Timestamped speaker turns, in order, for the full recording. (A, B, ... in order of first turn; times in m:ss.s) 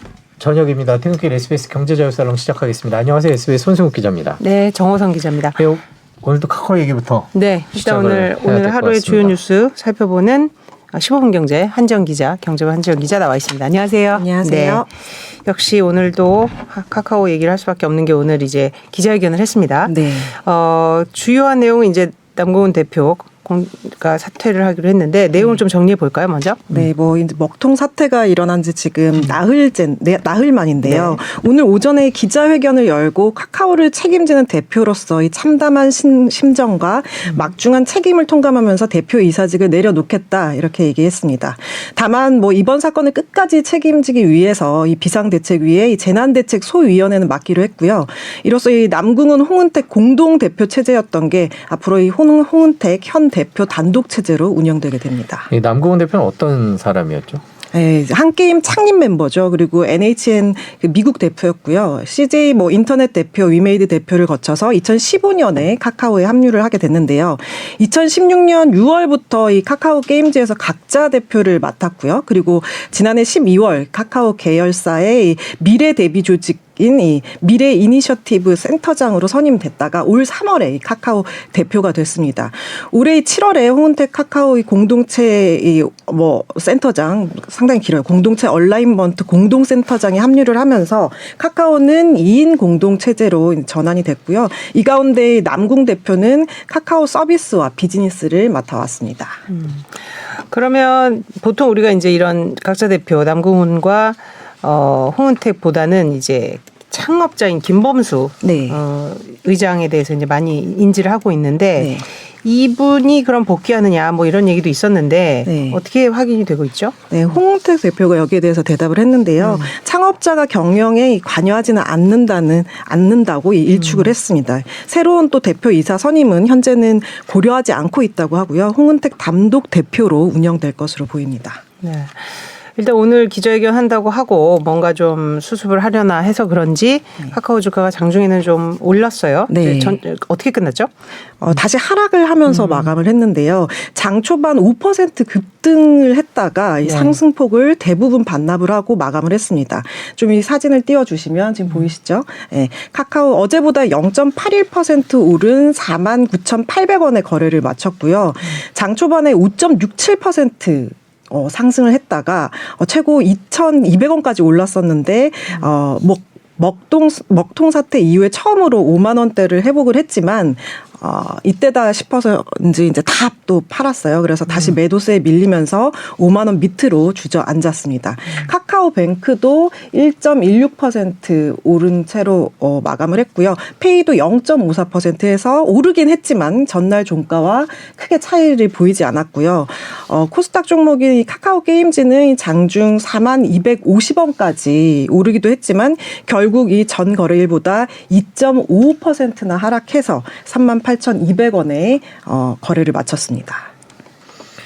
0:00.4-0:04.4 A
0:04.4-0:05.6 B
0:05.6-0:09.4 A
0:07.3-0:26.8 B
0:14.1-0:14.9 C
0:19.8-0:20.4 C
0:26.7-0:55.5 C
0:29.1-0:29.4 B
0:30.8-0:31.2 B
0:55.5-0:57.4 A
0:57.7-1:39.4 C
1:39.5-1:57.4 B
1:48.4-1:48.8 C
1:51.8-1:52.1 C
1:55.5-1:55.8 C
1:57.1-2:11.6 C
1:59.4-1:59.7 B
2:03.7-2:04.2 B
2:11.8-2:21.6 B
2:19.5-2:20.0 C
2:21.4-3:23.7 C
2:22.5-2:23.0 B
2:26.8-2:27.2 B
2:31.7-2:31.9 B
2:54.5-2:54.8 B
2:58.3-2:58.5 B